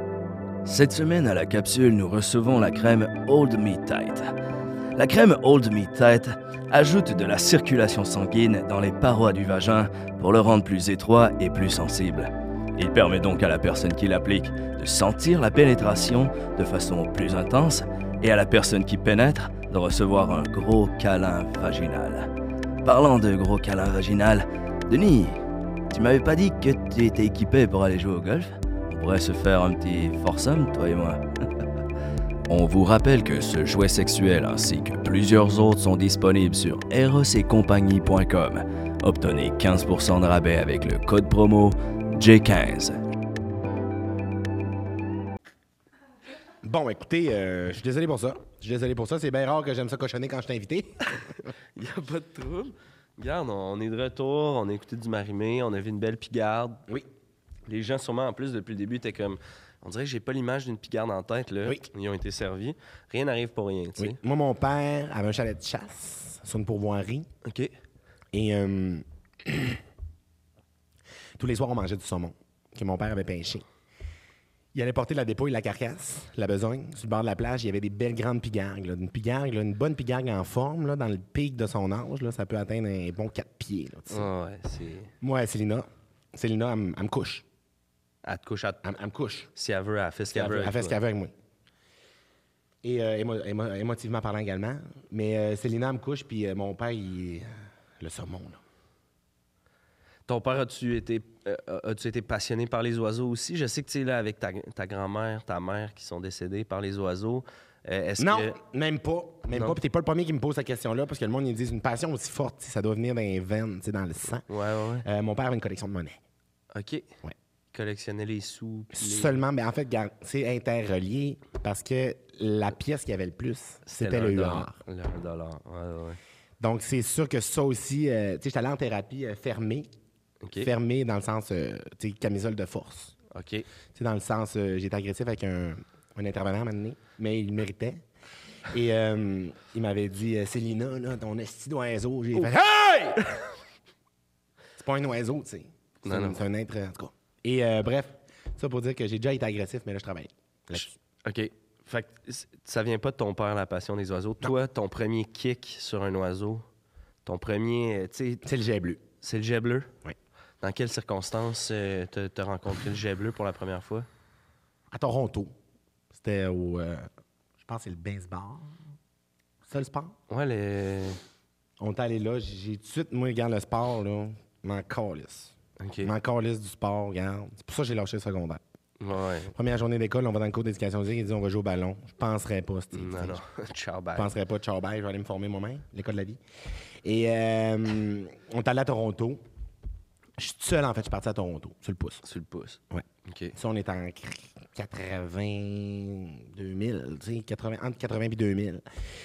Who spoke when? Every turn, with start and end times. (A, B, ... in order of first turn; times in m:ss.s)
0:00.6-0:04.3 A
0:05.0-0:22.3 A
0:22.8-0:31.2 A
0:32.5-0:43.0 A
0:46.6-0:51.1 B
0:51.8-0:56.8 C
0:57.6-1:04.2 C
1:04.0-1:07.3 B
1:07.4-1:07.7 C
1:08.3-1:09.8 B
1:11.4-1:13.6 B
1:14.7-1:24.3 B
1:24.1-1:25.1 C
1:25.2-1:27.4 B
1:28.2-1:28.8 C
1:28.8-1:29.5 B
1:29.5-1:31.0 C
1:30.3-1:31.3 B
1:32.8-1:38.6 B
1:40.3-1:48.6 C
1:48.2-1:54.5 B
1:49.5-1:49.8 C
1:54.5-1:55.1 C
1:55.0-1:56.2 B
1:56.7-1:57.1 C
1:57.7-1:59.4 C
1:58.9-2:04.8 B
2:03.8-2:06.2 C
2:06.6-2:09.9 B
2:10.4-2:10.7 C
2:10.6-2:13.1 B
2:13.3-2:13.7 C
2:13.9-2:18.0 B
2:18.7-2:23.2 B
2:24.8-2:31.0 B
2:26.0-2:26.4 C
2:30.8-2:36.6 C
2:37.2-2:38.4 C
2:38.4-2:39.0 B
2:39.2-2:39.9 C
2:40.6-2:44.1 C
2:44.9-2:45.5 B
2:46.1-2:47.1 B
2:47.6-2:48.8 B
2:49.6-2:50.2 B
2:50.3-2:51.2 C
2:51.8-2:58.6 B
2:55.8-2:56.1 C
2:59.0-2:59.5 C
2:59.5-3:03.4 B
3:02.9-3:04.3 C
3:04.2-3:06.4 B
3:07.0-3:09.4 B
3:10.4-3:12.2 B
3:12.2-3:13.5 C
3:12.9-3:18.8 B